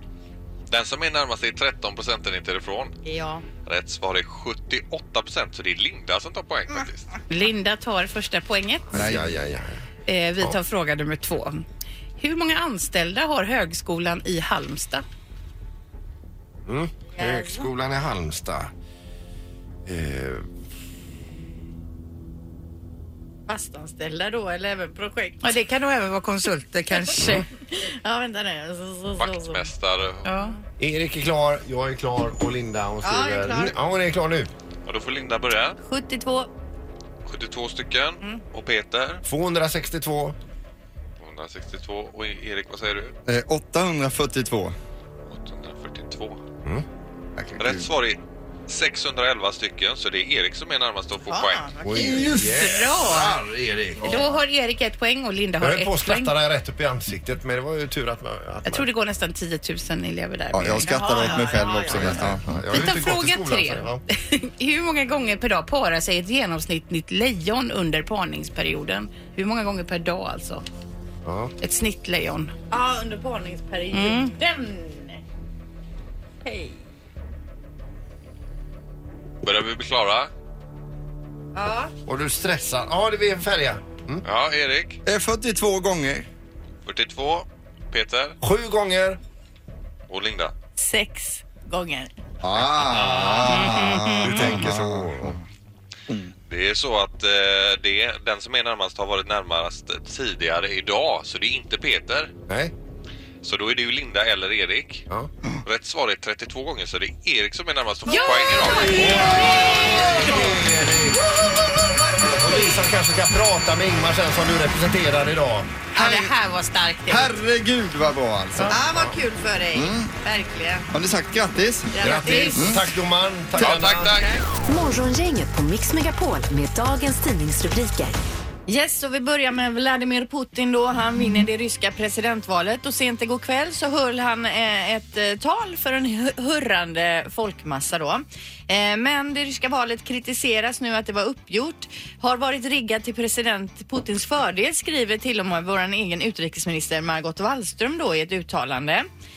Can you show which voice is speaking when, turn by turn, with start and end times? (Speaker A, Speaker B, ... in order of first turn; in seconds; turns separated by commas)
Speaker A: 0.7-2.9, Speaker B: 3.0-3.5, Speaker A: 3.7-7.1, Speaker C: 7.3-8.9, Speaker D: 8.9-9.8, Speaker E: 8.9-9.3, Speaker C: 10.1-11.6, Speaker C: 12.2-15.0, Speaker D: 16.7-18.7, Speaker B: 17.1-17.7, Speaker D: 19.9-20.5, Speaker B: 23.5-25.5, Speaker C: 25.4-27.4, Speaker B: 27.0-29.7, Speaker D: 27.2-27.4, Speaker A: 29.2-30.4, Speaker C: 30.2-30.6, Speaker D: 30.8-34.5, Speaker B: 33.0-33.8, Speaker A: 34.9-35.8, Speaker B: 35.8-36.5, Speaker A: 37.2-39.2, Speaker D: 39.2-40.4, Speaker A: 41.2-43.1, Speaker E: 43.3-44.8, Speaker A: 45.3-46.4, Speaker E: 47.4-47.9, Speaker A: 47.6-51.7, Speaker B: 51.3-52.7, Speaker D: 51.9-54.3, Speaker C: 52.3-53.4, Speaker C: 54.0-56.3, Speaker D: 55.6-58.9, Speaker C: 58.6-61.3, Speaker E: 60.5-62.7, Speaker B: 60.8-62.3, Speaker D: 61.8-64.0, Speaker C: 62.7-70.6, Speaker D: 71.2-71.5, Speaker C: 71.6-72.5, Speaker B: 72.7-75.2, Speaker C: 73.9-74.3, Speaker B: 76.4-76.8, Speaker A: 79.4-80.3, Speaker B: 81.5-81.9, Speaker D: 82.1-84.2, Speaker A: 84.2-85.0, Speaker E: 85.1-86.3, Speaker A: 86.9-88.4, Speaker D: 88.4-89.2, Speaker A: 90.1-90.5, Speaker B: 90.8-92.1, Speaker E: 92.4-95.4, Speaker D: 92.8-95.4, Speaker B: 93.6-94.0, Speaker A: 96.5-102.3, Speaker D: 102.5-102.7, Speaker A: 103.4-105.0, Speaker A: 105.7-109.4, Speaker C: 108.1-110.5, Speaker D: 108.9-111.3, Speaker B: 109.2-110.2, Speaker D: 112.4-115.8, Speaker C: 115.9-117.3, Speaker E: 116.0-116.3, Speaker E: 117.1-118.8, Speaker B: 118.7-120.9, Speaker D: 118.9-119.2, Speaker E: 119.7-120.1, Speaker E: 120.9-122.9, Speaker B: 121.9-122.7, Speaker D: 122.0-124.2, Speaker E: 123.6-124.1, Speaker A: 123.6-124.3, Speaker F: 124.7-128.2, Speaker B: 128.7-149.1